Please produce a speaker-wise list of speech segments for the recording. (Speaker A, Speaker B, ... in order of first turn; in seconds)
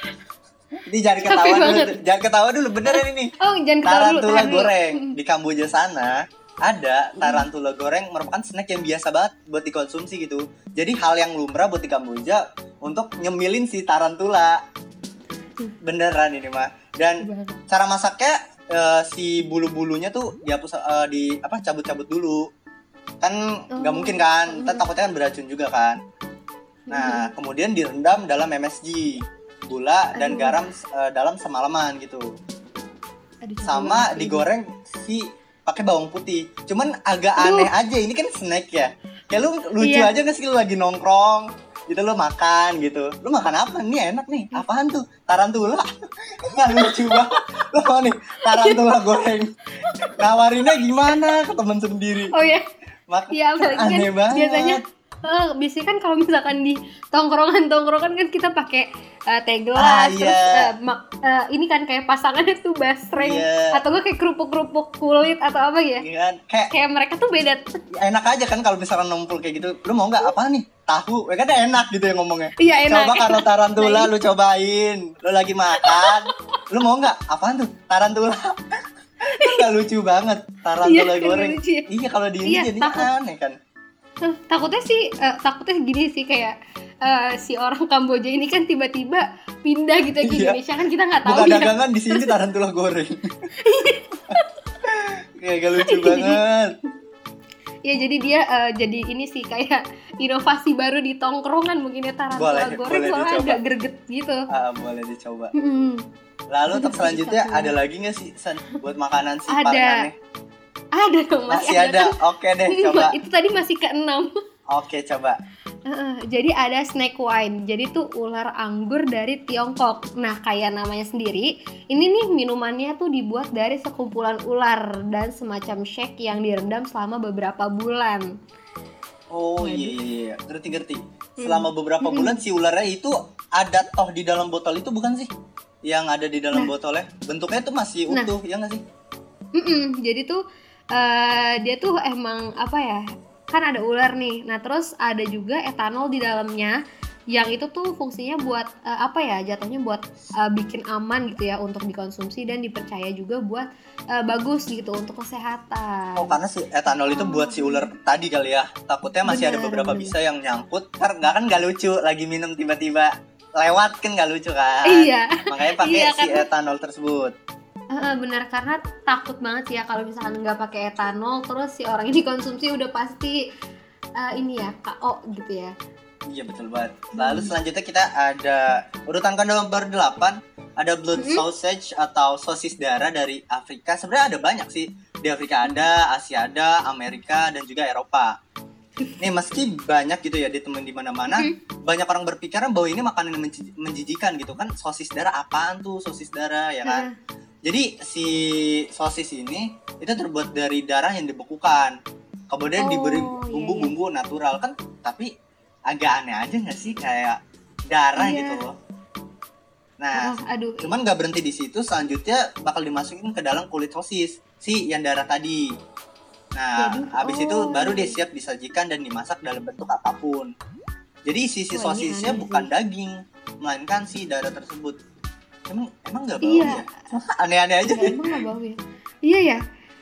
Speaker A: 0.8-3.3, 3.8-14.6, 15.8-22.5, 23.2-26.0, 26.9-32.3, 33.6-45.9, 46.4-52.3, 53.1-54.8, 59.8-60.7, 63.2-63.7, 66.0-66.7, 67.9-78.8, 79.4-83.6, 90.2-90.6, 91.2-93.3, 94.8-96.7, 102.3-103.6, 104.5-105.5, 106.5-110.2, 111.5-113.2, 114.7-115.4, 129.3-135.3, 135.8-138.8, 156.2-167.3, 176.3-188.3, 189.2-197.1, 197.6-202.0, 202.5-205.3, 205.9-208.8, 210.0-215.7, 216.5-220.5, 221.2-225.0, 225.7-228.3
Speaker B: 1.2-1.9, 2.9-5.2, 7.2-7.5, 17.2-17.6, 23.8-24.8, 26.9-27.3, 30.1-30.7, 33.4-34.5, 37.4-37.7, 39.8-40.1, 46.7-47.2, 48.5-48.8, 49.9-50.7, 52.3-52.6, 53.3-66.0, 66.7-67.8, 72.6-74.1, 75.8-76.6, 79.3-79.7, 80.8-81.9, 82.5-83.1, 84.2-92.3, 93.6-94.4, 95.8-96.4, 97.8-104.4, 105.5-106.0, 106.7-107.7, 109.5-110.1, 111.0-112.1, 112.7-114.3, 115.9-128.3, 129.6-129.9, 131.4-132.4, 139.6-140.4, 140.9-146.8, 147.3-156.3, 157.1-157.9, 159.3-160.1, 164.9-166.5, 167.9-173.4, 174.2-175.7, 177.2-177.5, 181.2-181.4, 191.3-191.6, 196.8-197.1, 202.8-203.9, 208.2-208.6, 210.1-210.9, 216.8-218.2, 221.7-222.7, 226.4-226.8, 227.8-229.6